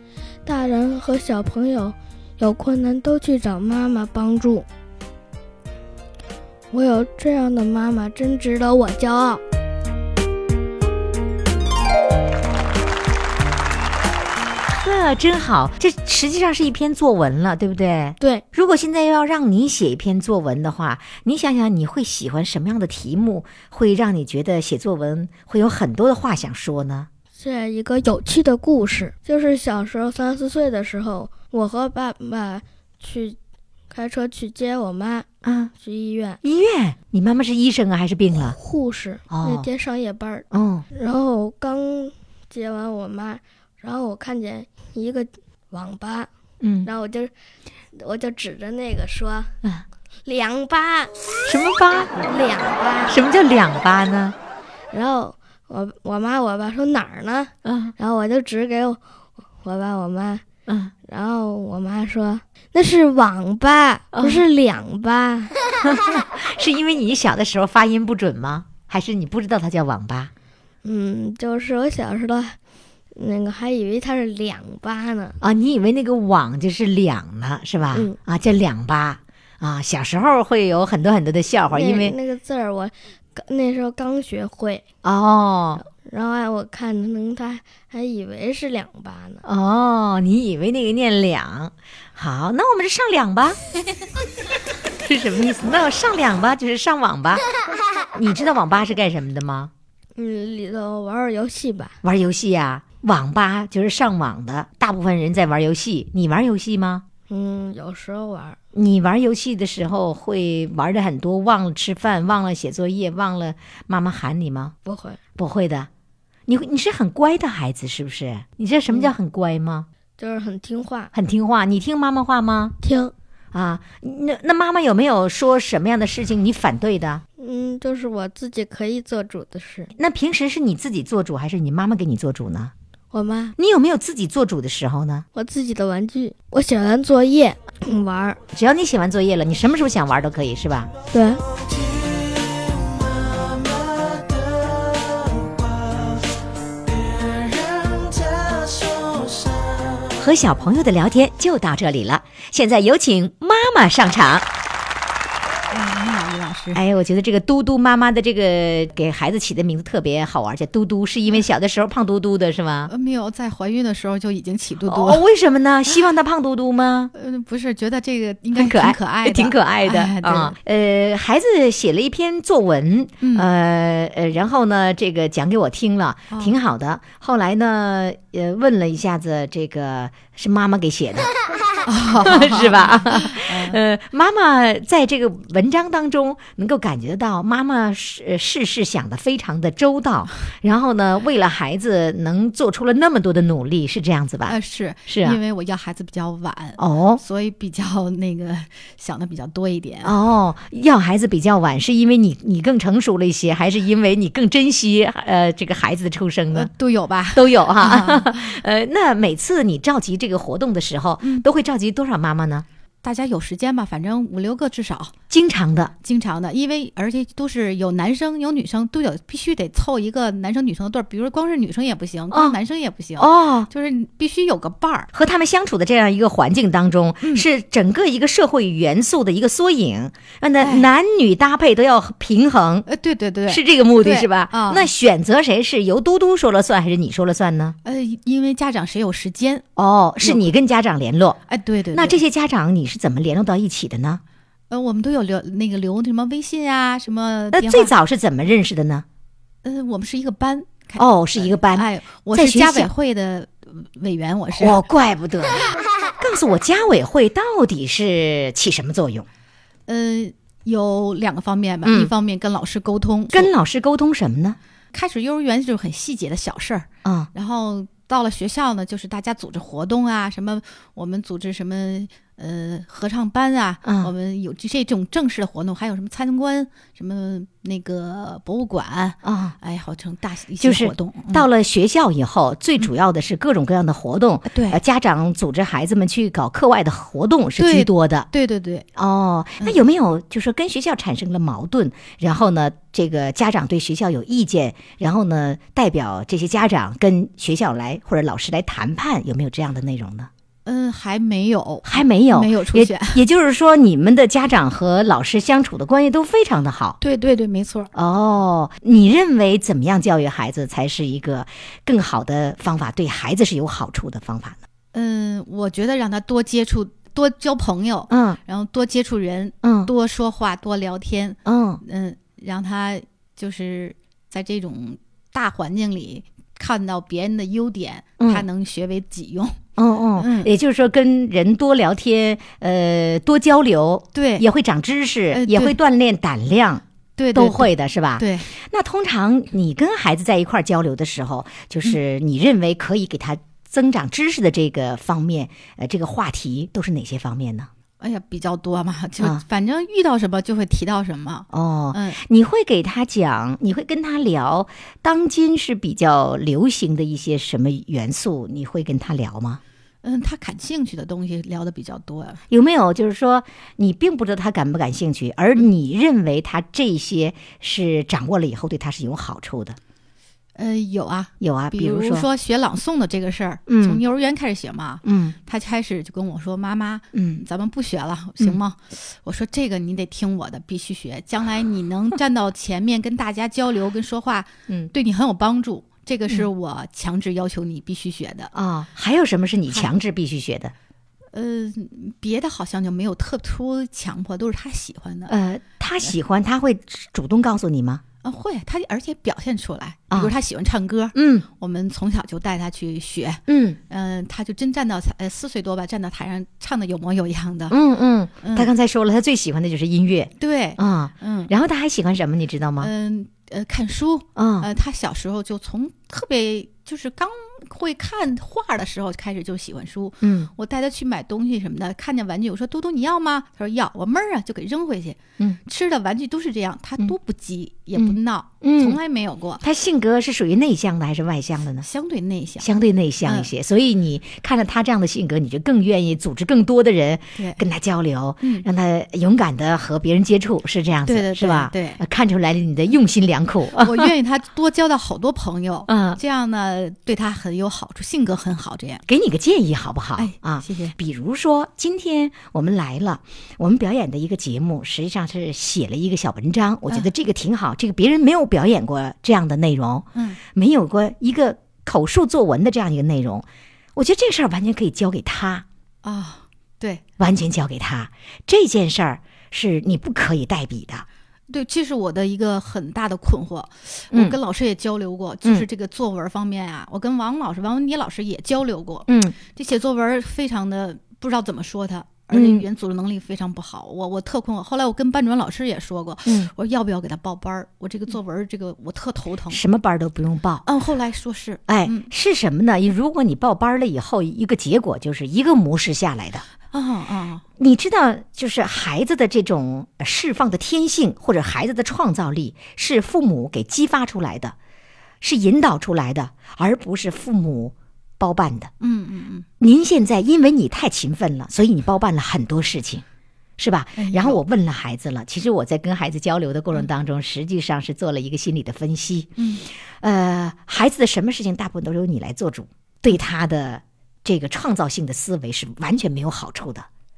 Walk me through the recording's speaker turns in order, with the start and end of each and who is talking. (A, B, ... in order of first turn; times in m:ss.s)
0:00.4-0:04.7 A
0:06.7-0:09.4 A
0:14.8-0:27.1 B
0:27.4-0:33.4 A
0:33.9-0:36.4 A
0:35.4-0:35.7 B
0:36.4-0:38.6 B
0:38.4-0:46.3 A
0:39.3-0:39.7 B
0:40.5-0:40.8 B
0:46.6-0:46.9 B
0:46.8-0:47.3 A
0:47.9-0:49.6 A
0:50.2-0:51.1 A
0:51.4-0:52.2 B
0:52.2-0:53.2 A
0:53.1-0:54.4 B
0:54.9-0:59.0 A
0:57.6-0:57.9 B
0:59.6-1:00.4 A
1:00.7-1:00.9 B
1:01.0-1:05.5 A
1:04.1-1:04.4 B
1:05.8-1:10.3 B
1:10.8-1:12.6 A
1:13.1-1:15.4 A
1:15.4-1:22.1 B
1:17.9-1:18.2 A
1:21.7-1:24.8 A
1:25.0-1:25.8 B
1:25.8-1:29.4 A
1:29.4-1:33.6 B
1:35.0-1:37.4 B
1:38.1-1:39.7 B
1:40.2-1:42.0 A
1:42.0-1:47.0 B
1:47.3-1:48.6 A
1:48.7-1:54.7 B
1:54.8-1:55.2 A
1:55.4-1:55.9 B
1:56.5-1:59.9 B
2:00.2-2:01.1 A
2:01.1-2:02.8 B
2:02.8-2:03.1 A
2:03.5-2:07.2 B
2:07.4-2:09.9 A
2:10.0-2:12.7 B
2:13.1-2:13.6 A
2:13.6-2:15.2 B
2:15.3-2:18.4 A
2:18.5-2:20.9 B
2:21.1-2:21.4 A
2:30.1-2:34.4 B
2:35.7-2:36.8 C
2:36.7-2:42.9 B
2:42.9-2:45.2 C
2:44.8-2:47.1 B
2:47.1-2:50.5 C
2:48.5-3:01.3 B
2:53.2-2:53.5 C
3:01.8-3:03.8 C
3:02.2-3:15.4 B
3:14.5-3:20.2 C
3:16.8-3:17.2 B
3:20.0-3:26.7 B
3:26.5-3:28.6 C
3:27.3-3:32.6 B
3:31.2-3:31.4 C
3:33.0-3:35.1 C
3:35.3-3:35.9 B
3:36.0-3:45.1 C
3:42.3-3:42.6 B
3:43.2-3:43.7 B
3:45.1-3:52.9 B
3:50.6-3:50.9 C
3:52.9-3:54.9 C
3:53.5-3:57.8 B
3:57.8-3:59.7 C
3:59.8-4:01.4 B
4:00.2-4:00.5 C
4:01.5-4:02.2 C
4:01.9-4:04.2 B
4:04.7-4:07.9 C
4:07.5-4:09.0 B
4:09.6-4:14.8 C
4:11.0-4:12.9 B
4:14.5-4:19.3 B
4:19.9-4:23.5 C
4:21.8-4:22.1 B
4:23.3-4:24.6 B
4:24.9-4:41.5 C
4:27.0-4:27.3 B
4:33.8-4:34.1 B
4:39.2-4:39.6 B
4:40.6-4:48.3 B
4:44.5-4:44.8 C
4:47.6-4:48.8 C
4:49.0-5:00.3 B
5:00.6-5:03.2 C
5:01.8-5:07.0 B
5:07.0-5:07.9 C
5:07.9-5:14.6 B
5:14.9-5:29.6 C
5:18.1-5:18.4 B
5:19.6-5:19.9 B
5:21.4-5:21.8 B
5:28.2-5:28.4 B
5:29.8-5:47.7 B
5:30.2-5:30.5 C
5:34.1-5:34.4 C
5:35.3-5:35.8 C
5:37.2-5:38.5 C
5:48.0-5:52.2 C
5:51.5-5:59.6 B
6:00.0-6:02.4 C
6:02.5-6:09.8 B
6:10.6-6:28.5 C
6:11.4-6:12.3 B
6:13.7-6:14.0 B
6:15.0-6:15.4 B
6:17.1-6:17.4 B
6:28.5-6:30.7 B
6:31.3-6:35.3 C
6:35.3-6:38.0 B
6:38.2-6:47.8 C
6:41.1-6:41.5 B
6:43.5-6:43.8 B
6:47.7-6:52.9 B
6:48.4-6:48.7 C
6:50.4-6:51.5 C
6:52.8-7:09.6 C
6:54.4-6:54.7 B
7:00.2-7:00.5 B
7:08.0-7:09.0 B
7:09.6-7:11.9 B
7:11.8-7:12.7 C
7:12.6-7:24.1 B
7:13.2-7:13.5 C
7:17.4-7:17.6 C
7:21.0-7:22.0 C
7:23.7-7:29.0 C
7:25.9-7:26.2 B
7:29.1-7:45.6 B
7:30.2-7:30.9 C
7:40.1-7:40.4 C
7:46.0-7:47.0 C
7:47.2-7:51.0 B
7:51.5-8:09.6 C
7:54.1-7:54.4 B
7:59.1-7:59.4 B
8:02.3-8:02.6 B
8:06.2-8:06.5 B
8:09.5-8:10.6 B
8:10.6-8:12.1 C
8:11.7-8:16.4 B
8:16.7-8:17.4 C
8:17.6-8:24.6 B
8:25.2-8:28.7 B
8:28.8-8:29.4 C
8:29.6-8:33.0 B
8:33.6-8:39.3 B
8:34.0-8:34.4 C
8:39.4-8:39.6 C
8:40.0-8:46.9 B